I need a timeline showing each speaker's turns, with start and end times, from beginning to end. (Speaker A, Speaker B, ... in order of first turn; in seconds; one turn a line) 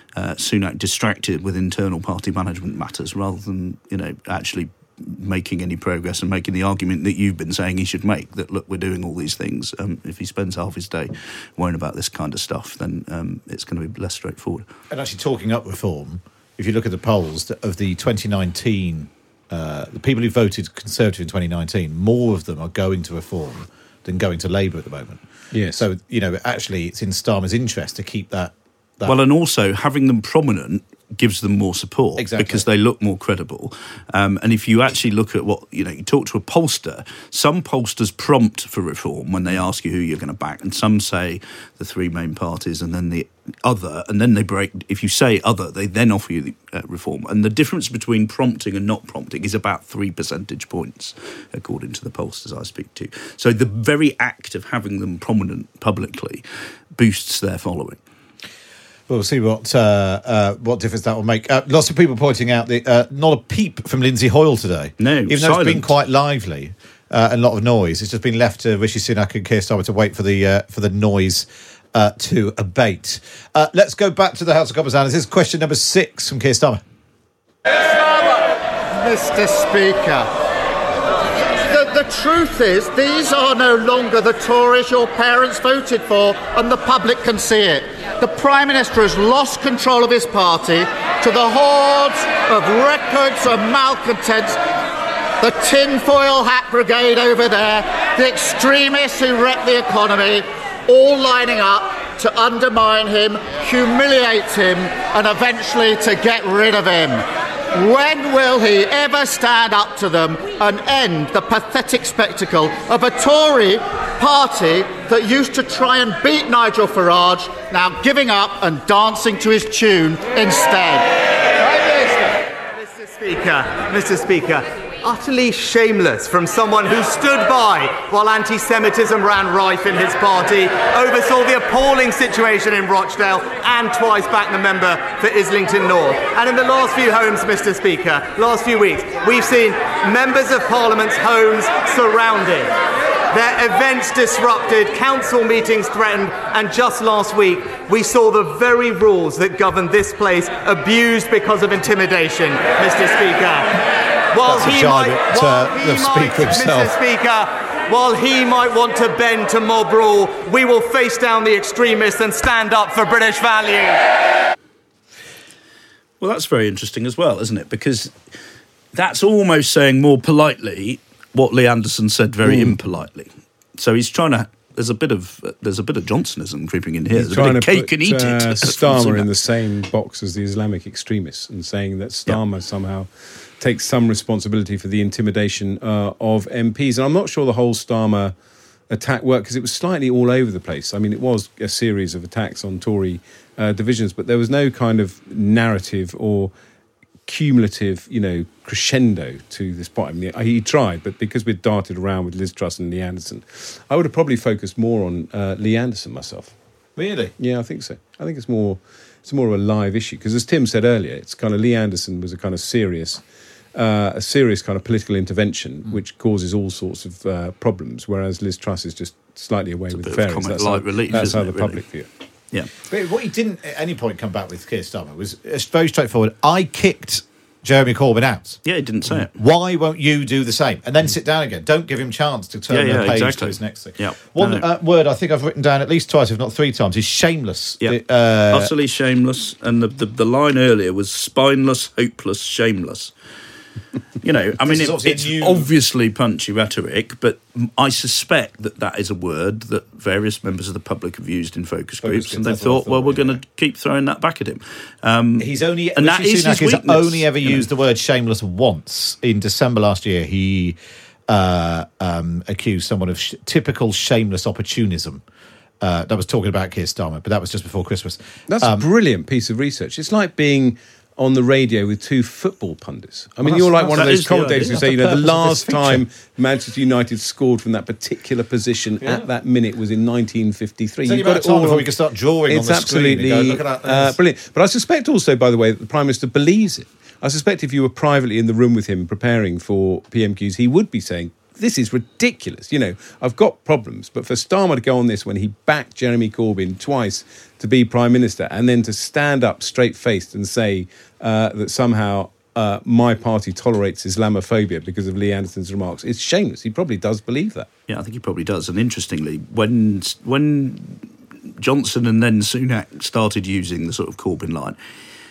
Speaker A: 0.2-14.7
Speaker B: 14.9-25.2
Speaker C: 25.5-25.9
Speaker B: 25.8-29.2
Speaker A: 29.0-56.4
Speaker B: 32.2-32.6
Speaker A: 57.0-58.0
Speaker B: 59.1-76.8
Speaker A: 65.0-66.0
Speaker D: 78.9-80.3
Speaker D: 81.7-94.6
Speaker D: 95.4-121.1
Speaker E: 121.6-142.7
Speaker E: 143.3-164.0
Speaker B: 154.4-156.9
Speaker A: 166.2-168.2
Speaker A: 168.9-179.3
Speaker C: 172.4-172.9
Speaker C: 177.1-188.3
Speaker C: 188.9-196.5
Speaker C: 197.3-206.5
Speaker B: 207.0-207.3
Speaker C: 207.4-213.2
Speaker C: 213.8-222.1
Speaker A: 219.9-221.8
Speaker B: 222.9-228.6
Speaker A: 228.6-229.3
Speaker B: 229.1-238.8
Speaker A: 232.7-234.7
Speaker A: 238.5-243.1
Speaker A: 244.2-257.7
Speaker B: 244.6-245.7
Speaker B: 252.0-253.4
Speaker B: 255.4-265.2
Speaker B: 265.8-268.8
Speaker C: 268.5-281.9
Speaker B: 273.4-276.0
Speaker A: 273.9-274.9
Speaker B: 281.1-284.1
Speaker C: 282.5-307.8
Speaker A: 307.9-314.8